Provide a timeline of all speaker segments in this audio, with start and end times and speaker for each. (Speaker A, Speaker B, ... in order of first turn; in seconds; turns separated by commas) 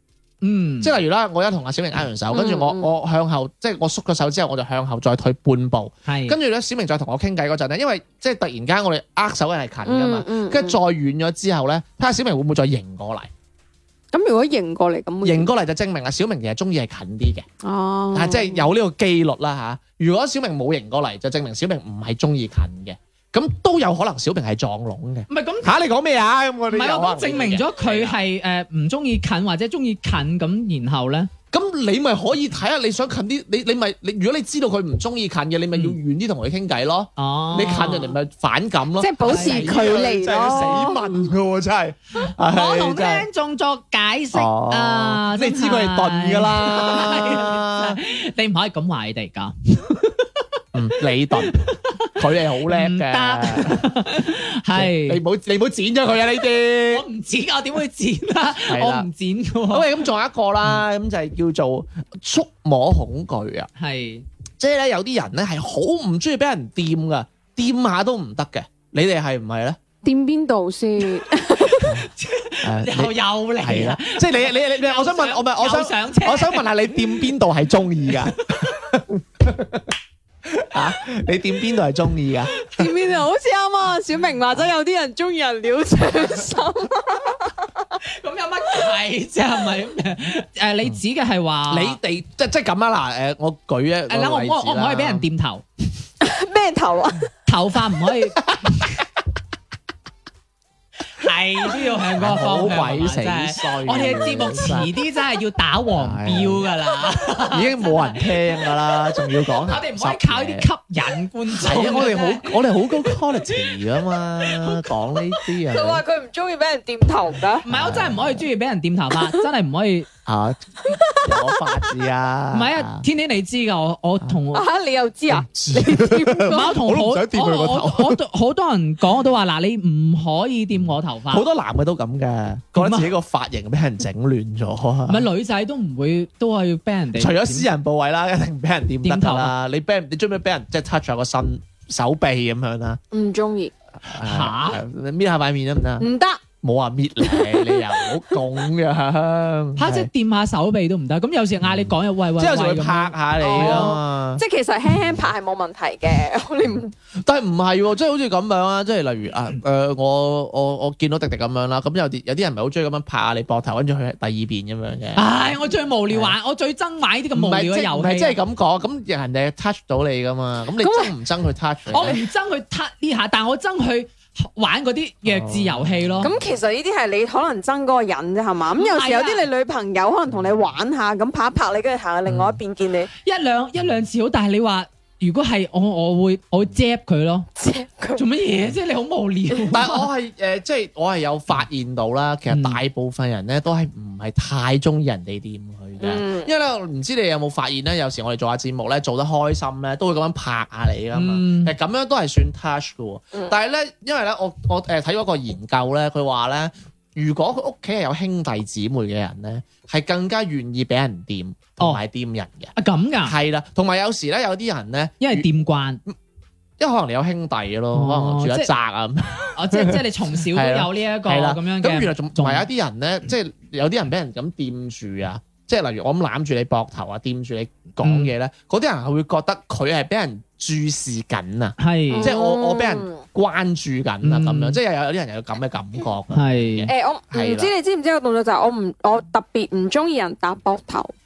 Speaker A: 0.4-0.9, Speaker B: 0.8-13.3, Speaker C: 2.3-2.9, Speaker A: 6.1-6.4, Speaker C: 9.8-10.8, Speaker C: 14.1-15.5, Speaker B: 15.2-17.5, Speaker C: 17.6-18.7, Speaker B: 18.1-28.2, Speaker A: 25.3-25.8, Speaker A: 26.7-31.3, Speaker B: 31.5-43.3, Speaker A: 37.2-38.2, Speaker C: 39.0-41.3, Speaker A: 39.3-39.7, Speaker A: 42.4-50.3, Speaker B: 44.3-48.0, Speaker B: 50.7-57.1, Speaker A: 51.4-55.2, Speaker A: 56.9-60.0, Speaker B: 58.7-59.1, Speaker B: 59.7-63.7, Speaker A: 63.8-64.2, Speaker B: 64.6-69.8, Speaker C: 70.0-71.9, Speaker A: 71.8-77.3, Speaker B: 72.6-79.9, Speaker A: 78.5-78.8, Speaker B: 80.5-82.6, Speaker C: 82.8-87.7, Speaker A: 88.0-92.0, Speaker B: 91.7-95.3, Speaker A: 94.1-95.6, Speaker C: 96.2-97.3, Speaker A: 97.5-99.0, Speaker A: 101.1-108.3, Speaker B: 102.1-104.9, Speaker B: 106.0-106.7, Speaker B: 107.5-110.7, Speaker A: 109.7-112.5, Speaker B: 111.6-116.0, Speaker C: 115.7-117.7, Speaker A: 117.7-120.1, Speaker B: 117.7-118.5, Speaker B: 120.3-123.0, Speaker C: 120.9-122.0, Speaker A: 122.5-124.7, Speaker C: 124.5-126.7, Speaker B: 125.3-128.2, Speaker A: 126.5-131.5, Speaker B: 131.3-135.3, Speaker A: 132.8-133.1, Speaker A: 135.1-137.7, Speaker B: 137.2-143.0, Speaker A: 139.0-139.5, Speaker C: 143.1-143.7, Speaker B: 144.1-146.1, Speaker A: 144.1-144.8, Speaker C: 146.0-146.4, Speaker B: 146.6-150.1, Speaker C: 147.2-148.0, Speaker A: 149.8-153.9, Speaker B: 151.7-155.3, Speaker C: 153.4-156.9, Speaker B: 157.2-165.5, Speaker A: 165.2-168.4, Speaker B: 166.1-166.4, Speaker B: 167.3-172.2, Speaker C: 170.8-171.1, Speaker A: 171.9-176.3, Speaker B: 175.3-176.5, Speaker C: 176.2-183.1, Speaker A: 178.7-179.5, Speaker B: 182.3-182.6, Speaker A: 183.2-187.5, Speaker C: 187.6-188.2, Speaker A: 188.2-190.1, Speaker B: 189.7-215.5, Speaker A: 192.5-192.8, Speaker C: 196.0-196.5, Speaker A: 201.1-201.7, Speaker A: 212.8-213.4, Speaker A: 215.2-216.0, Speaker B: 216.8-237.7, Speaker A: 217.9-218.7, Speaker A: 219.6-222.7, Speaker A: 228.0-228.3, Speaker A: 231.8-232.3, Speaker C: 232.1-233.2, Speaker A: 234.2-234.8, Speaker A: 236.3-236.9, Speaker C: 236.9-241.1